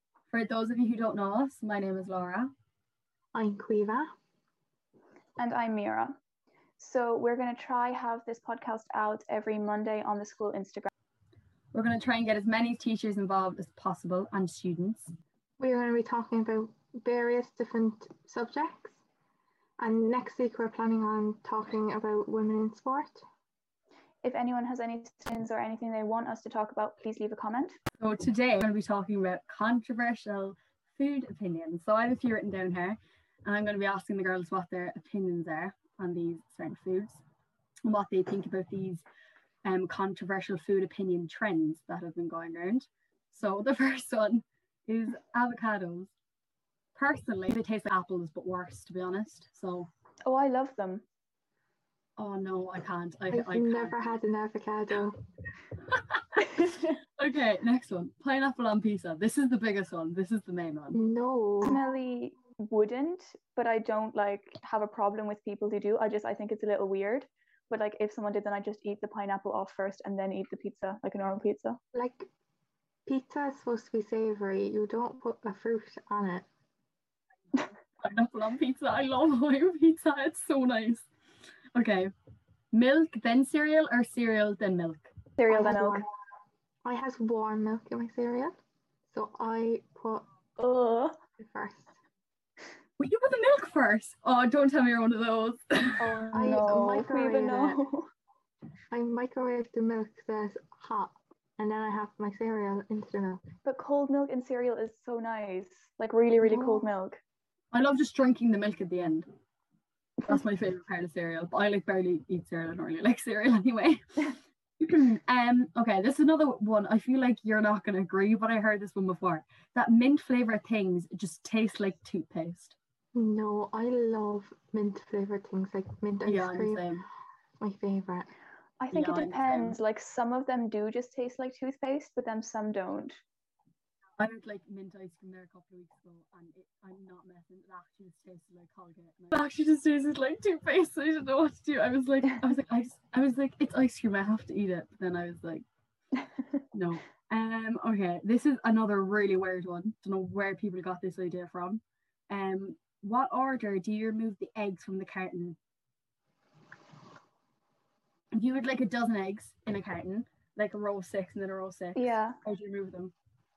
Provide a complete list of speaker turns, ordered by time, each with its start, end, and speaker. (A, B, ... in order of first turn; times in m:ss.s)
0:00.3-0:02.5 A
0:03.3-0:04.1 B
0:05.4-0:06.1 C
0:06.8-0:10.9 C
0:11.7-0:15.1 A
0:15.6-0:19.0 B
0:19.8-0:23.2 B
0:24.2-0:27.8 C
0:28.0-0:37.2 A
0:37.9-0:39.0 A
0:39.6-0:46.1 A
0:47.0-0:49.9 A
0:50.2-0:51.0 C
0:52.2-0:54.2 A
0:53.3-0:55.2 B
0:55.9-1:01.0 A
0:56.5-0:56.8 C
1:00.9-1:01.8 B
1:01.6-1:11.8 C
1:11.9-1:12.3 B
1:13.1-1:16.5 B
1:18.0-1:21.1 A
1:21.8-1:22.1 A
1:22.7-1:25.1 A
1:25.4-1:26.0 C
1:25.5-1:26.1 B
1:26.8-1:28.5 B
1:29.1-1:30.2 B
1:30.6-1:31.2 C
1:31.4-1:32.0 B
1:33.0-1:36.2 A
1:36.0-1:38.1 C
1:36.3-1:37.8 B
1:38.9-1:43.4 B
1:43.6-1:47.2 C
1:46.4-1:46.9 B
1:47.7-1:49.3 A
1:50.2-2:02.8 A
2:03.1-2:06.8 B
2:06.2-2:07.1 A
2:07.6-2:08.3 B
2:08.8-2:13.2 C
2:08.9-2:09.8 A
2:14.2-2:25.7 A
2:26.7-2:35.6 A
2:38.3-2:43.1 A
2:42.0-2:42.4 C